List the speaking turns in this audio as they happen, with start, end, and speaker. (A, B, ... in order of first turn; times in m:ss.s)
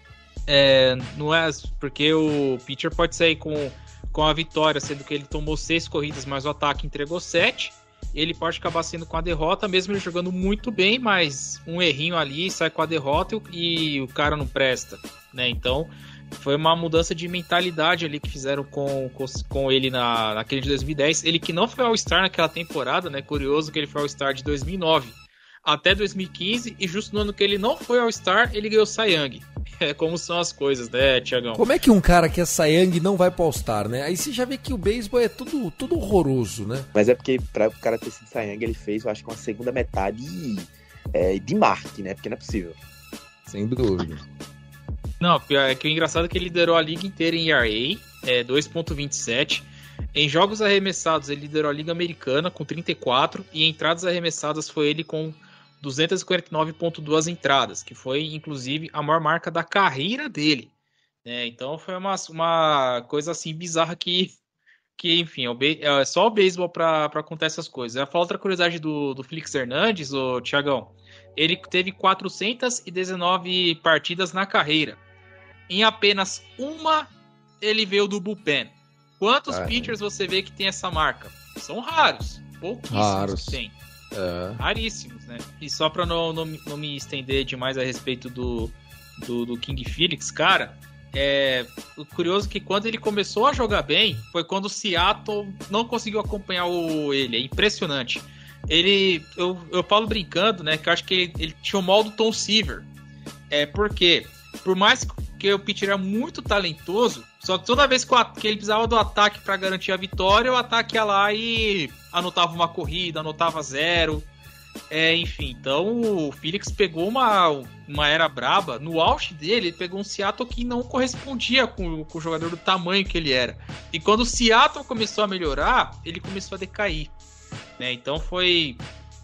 0:00.5-0:31.6 A
0:31.6-0:36.9 B
0:37.0-0:42.8 C
0:43.5-0:44.2 B
0:45.2-1:00.7 A
1:01.2-1:04.4 A
1:05.0-1:15.0 A
1:15.7-1:17.1 A
1:17.6-1:23.8 A
1:19.5-1:20.0 B
1:22.9-1:23.6 B
1:24.1-1:24.6 B
1:24.6-1:42.9 A
1:43.5-1:54.3 A
1:54.9-2:07.1 A
2:07.8-2:08.8 A